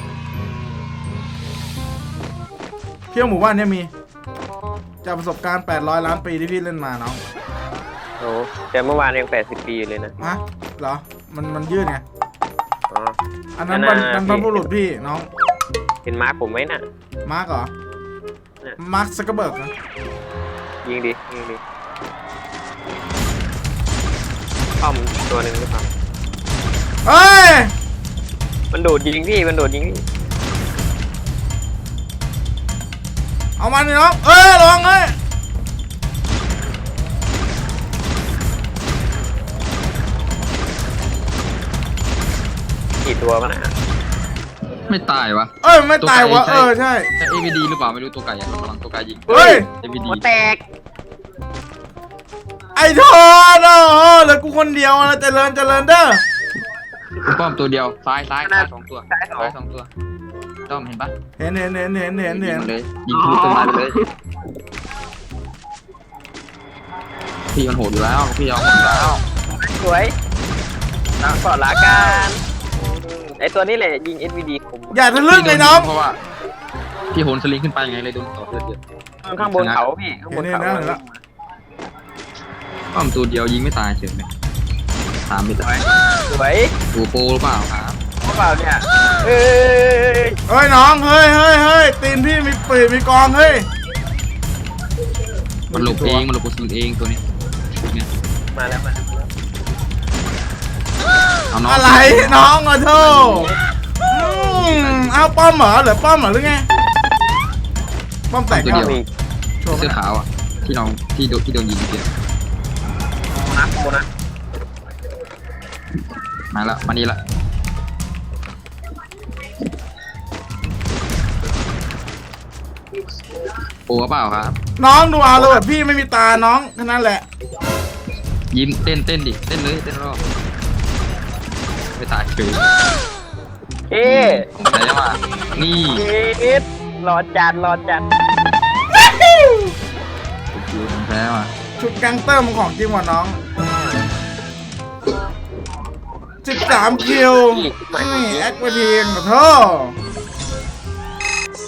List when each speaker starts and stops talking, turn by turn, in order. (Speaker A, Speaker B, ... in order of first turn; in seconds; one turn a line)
Speaker A: 3.1-3.9
Speaker A: 5.0-7.2
Speaker B: 8.2-10.2
Speaker A: 10.2-12.0
Speaker B: 12.9-13.2
Speaker A: 13.6-15.3
Speaker B: 13.7-14.7
Speaker B: 16.0-16.8
Speaker A: 17.2-17.7
Speaker A: 18.8-19.7
Speaker B: 20.8-21.6
Speaker B: 24.8-25.9
Speaker A: 27.0-27.7
Speaker B: 28.7-30.0
Speaker A: 33.6-35.1
Speaker B: 43.0-43.7
Speaker C: 44.9-50.2
Speaker A: 45.6-47.1
Speaker B: 49.3-50.6
Speaker A: 49.3-49.7
Speaker A: 52.7-56.2
Speaker C: 57.2-59.9
Speaker B: 58.4-59.5
Speaker C: 60.7-61.1
Speaker A: 61.4-62.7
Speaker C: 62.2-64.0
Speaker B: 63.1-63.9
Speaker C: 67.5-69.2
Speaker B: 69.5-70.1
Speaker B: 71.2-72.4
Speaker B: 73.4-75.1
Speaker A: 74.9-75.9
Speaker C: 75.3-76.2
Speaker C: 77.1-78.8
Speaker B: 79.2-81.2
Speaker C: 79.4-79.8
Speaker A: 80.3-81.0
Speaker C: 82.9-84.3
Speaker C: 85.2-85.8
Speaker B: 85.6-86.7
Speaker C: 86.9-88.0
Speaker B: 88.2-90.3
Speaker A: 90.5-93.7
Speaker A: 95.7-96.3
Speaker C: 95.7-97.2
Speaker B: 98.5-99.3
Speaker C: 101.5-103.5
Speaker A: 101.7-103.5
Speaker A: 104.1-106.7
Speaker C: 104.5-105.2
Speaker A: 108.3-109.0
Speaker C: 108.5-109.0
Speaker B: 108.7-109.0
Speaker A: 109.6-110.0
Speaker C: 109.7-112.1
Speaker B: 113.3-114.0
Speaker C: 116.5-117.2
Speaker C: 123.9-124.5
Speaker A: 124.8-127.2
Speaker C: 128.5-130.2
Speaker C: 131.9-132.6
Speaker B: 133.9-134.5
Speaker C: 134.0-136.0
Speaker B: 135.9-138.1
Speaker A: 139.1-139.5
Speaker C: 140.5-141.5
Speaker A: 141.8-143.4
Speaker A: 146.4-149.9
Speaker B: 146.6-148.5